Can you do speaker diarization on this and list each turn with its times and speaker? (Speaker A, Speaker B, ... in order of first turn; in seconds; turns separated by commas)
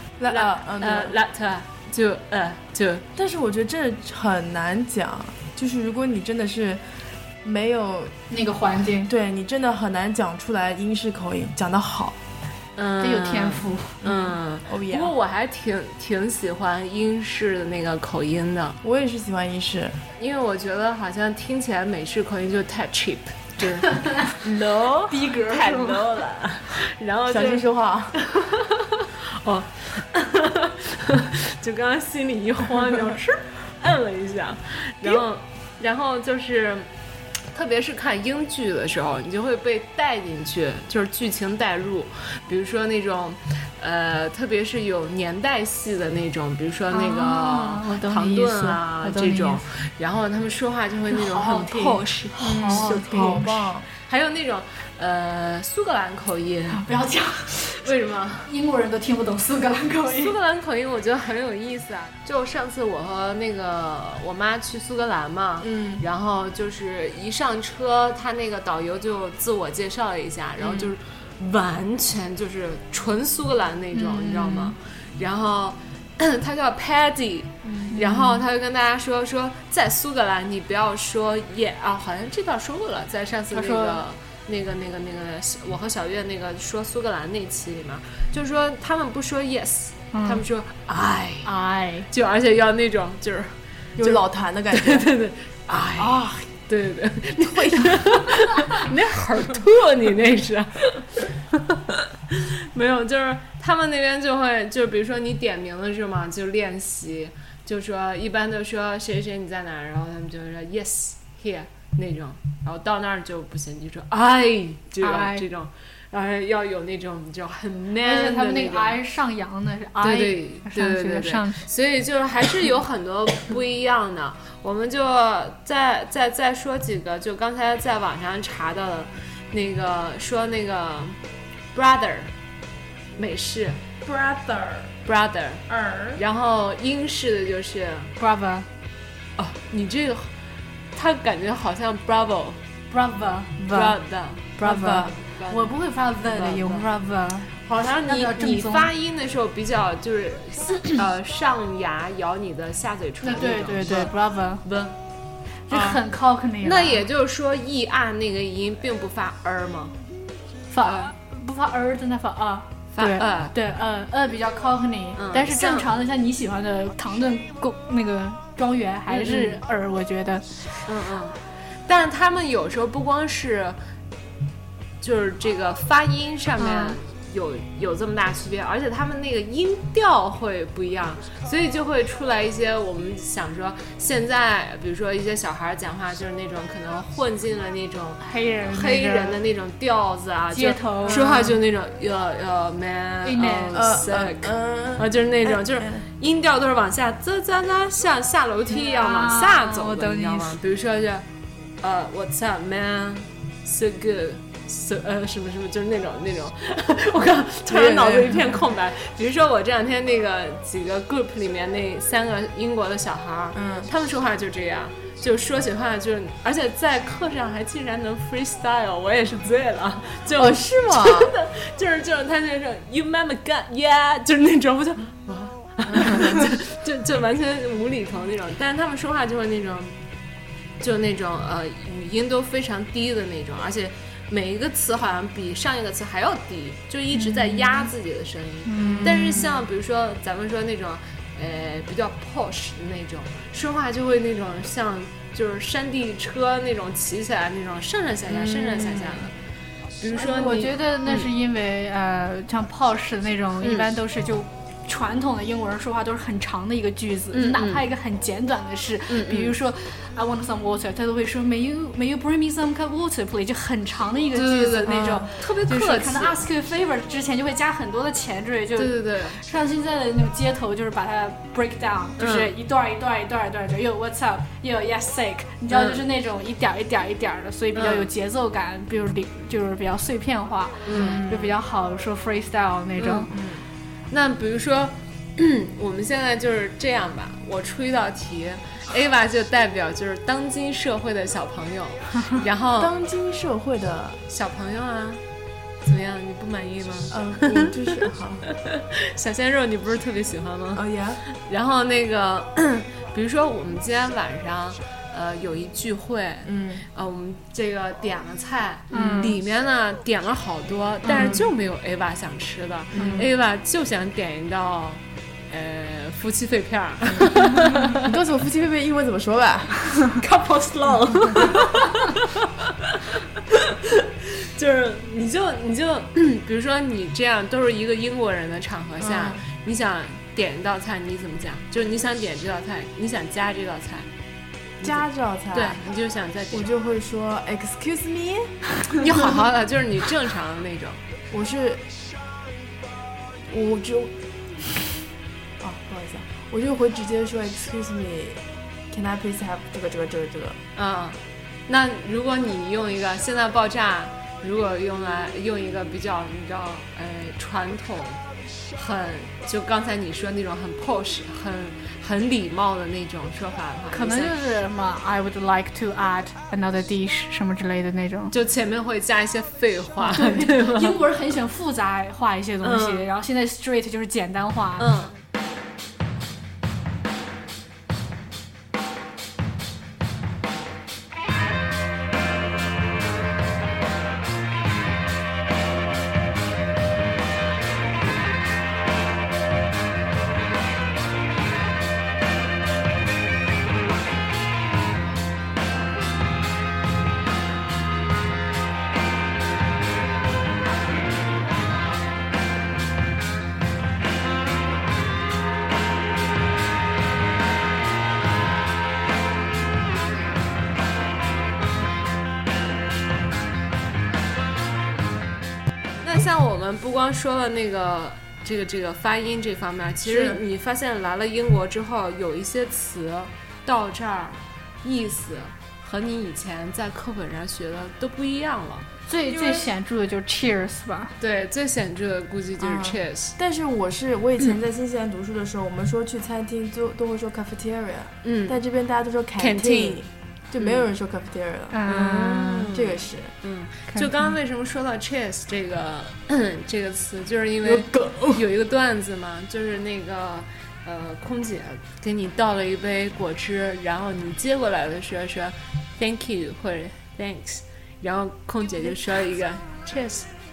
Speaker A: 0.2-1.1, Speaker B: 0.3-3.0, Speaker A: 3.1-6.8, Speaker A: 7.4-8.1, Speaker C: 8.3-9.1, Speaker A: 9.0-12.2, Speaker B: 12.8-18.8, Speaker C: 13.0-14.1, Speaker A: 14.7-15.1, Speaker A: 18.8-20.0, Speaker B: 20.2-27.6, Speaker C: 24.0-24.3, Speaker C: 25.1-26.2, Speaker A: 27.3-28.1, Speaker B: 28.2-36.9, Speaker B: 37.5-56.8, Speaker C: 46.9-49.6, Speaker C: 51.1-53.5, Speaker A: 52.4-53.9, Speaker C: 56.7-57.9, Speaker B: 57.8-58.5, Speaker C: 58.5-60.3, Speaker B: 60.1-91.5, Speaker A: 65.6-66.0, Speaker A: 70.6-70.9, Speaker C: 74.3-74.6, Speaker C: 77.8-78.4, Speaker C: 83.5-84.0, Speaker C: 90.1-90.4, Speaker C: 91.4-92.1, Speaker B: 92.1-119.0, Speaker A: 94.0-95.1, Speaker A: 95.9-96.5, Speaker A: 97.5-97.9, Speaker C: 115.0-115.4, Speaker C: 118.0-121.7, Speaker B: 120.0-131.2, Speaker B: 131.7-132.3, Speaker B: 133.2-133.8, Speaker A: 134.0-134.9, Speaker B: 135.1-135.6, Speaker A: 135.7-136.2, Speaker B: 136.2-138.1, Speaker C: 138.2-138.7, Speaker B: 139.4-140.3, Speaker B: 140.9-142.6, Speaker C: 142.9-144.0, Speaker B: 143.7-145.7, Speaker C: 144.6-147.5, Speaker A: 144.6-145.1, Speaker B: 146.3-146.8, Speaker B: 147.6-154.1, Speaker C: 148.0-148.9, Speaker C: 153.2-154.6, Speaker B: 154.6-154.9, Speaker C: 155.7-157.0, Speaker A: 155.7-156.0, Speaker B: 156.6-159.9, Speaker C: 160.7-170.7, Speaker B: 162.9-163.5, Speaker B: 165.2-165.9, Speaker B: 169.1-169.6, Speaker B: 170.8-173.8, Speaker B: 175.0-201.2, Speaker C: 176.6-177.0, Speaker C: 188.2-189.4, Speaker C: 190.5-191.5, Speaker A: 191.1-191.5, Speaker C: 193.2-193.8, Speaker A: 193.7-196.0, Speaker C: 198.7-200.6, Speaker B: 201.8-229.9, Speaker A: 207.7-208.6, Speaker A: 213.5-213.9, Speaker A: 220.3-221.3, Speaker A: 225.9-226.4, Speaker B: 230.8-249.3, Speaker C: 237.1-237.9, Speaker C: 238.7-239.5, Speaker B: 250.0-251.3, Speaker C: 250.1-283.3, Speaker B: 253.6-253.8, Speaker B: 257.3-257.8, Speaker B: 259.1-259.5, Speaker B: 264.3-266.4, Speaker B: 268.8-269.4, Speaker B: 272.2-272.5, Speaker B: 275.7-276.0, Speaker B: 277.7-278.1, Speaker B: 280.9-281.2, Speaker A: 280.9-281.5, Speaker B: 283.0-283.3, Speaker A: 283.3-283.7, Speaker B: 284.1-292.9, Speaker A: 292.8-294.2, Speaker B: 294.3-295.2, Speaker B: 295.8-318.1, Speaker A: 297.1-298.4, Speaker A: 300.7-301.2, Speaker A: 306.4-306.8, Speaker C: 308.9-309.4, Speaker A: 311.1-311.4, Speaker C: 311.1-311.4, Speaker A: 312.9-313.3, Speaker C: 313.0-313.2, Speaker A: 317.9-319.8, Speaker B: 320.2-334.1, Speaker A: 329.0-329.4, Speaker B: 334.8-336.6, Speaker A: 334.8-335.8, Speaker A: 336.5-338.6, Speaker B: 338.9-341.0, Speaker A: 341.3-341.8, Speaker A: 343.5-344.1, Speaker A: 345.6-350.6, Speaker B: 350.8-358.2, Speaker B: 358.7-364.3, Speaker C: 363.9-368.3, Speaker B: 368.3-371.0, Speaker C: 370.0-374.9, Speaker B: 372.6-373.1, Speaker B: 374.8-375.2, Speaker B: 416.0-428.9, Speaker A: 420.0-420.4, Speaker C: 429.1-431.1, Speaker A: 429.2-429.7, Speaker B: 431.2-433.4, Speaker A: 432.6-441.8, Speaker B: 438.2-438.6, Speaker B: 439.4-440.0, Speaker B: 440.6-440.9, Speaker C: 441.7-442.7, Speaker B: 441.9-460.3, Speaker A: 442.7-443.3, Speaker C: 443.9-444.3, Speaker A: 447.6-448.4